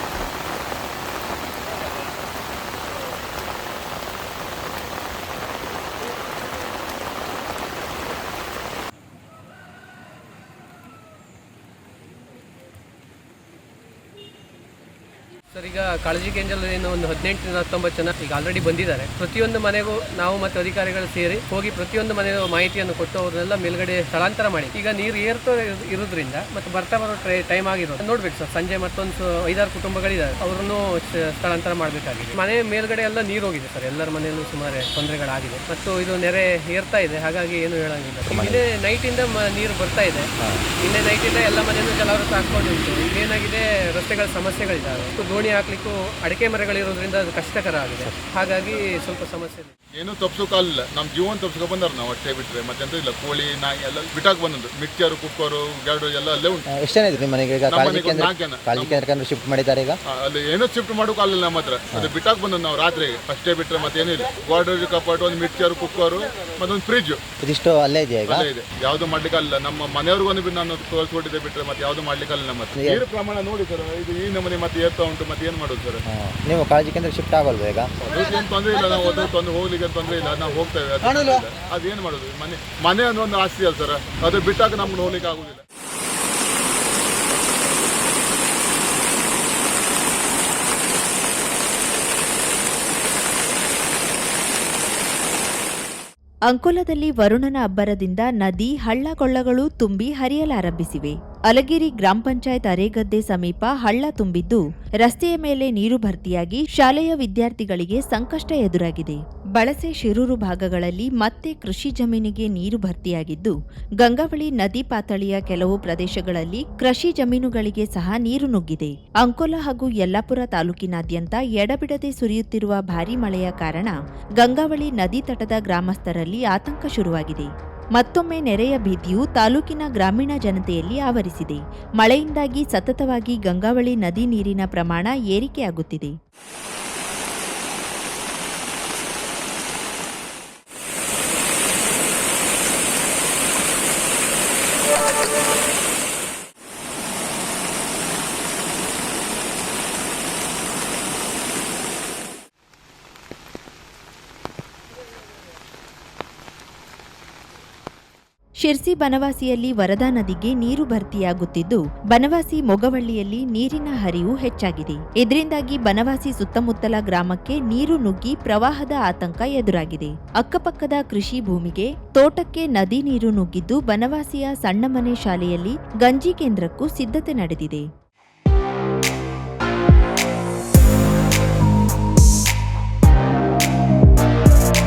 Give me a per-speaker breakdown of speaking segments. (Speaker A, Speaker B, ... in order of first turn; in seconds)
Speaker A: 15.5-40.3, 40.8-49.7
Speaker B: 38.3-38.6, 56.7-60.0, 67.4-68.5, 72.8-73.0, 76.1-77.9
Speaker C: 50.0-56.6, 57.7-59.0, 60.1-67.2, 68.3-76.0, 78.0-85.6
Speaker D: 96.5-136.2, 158.6-177.8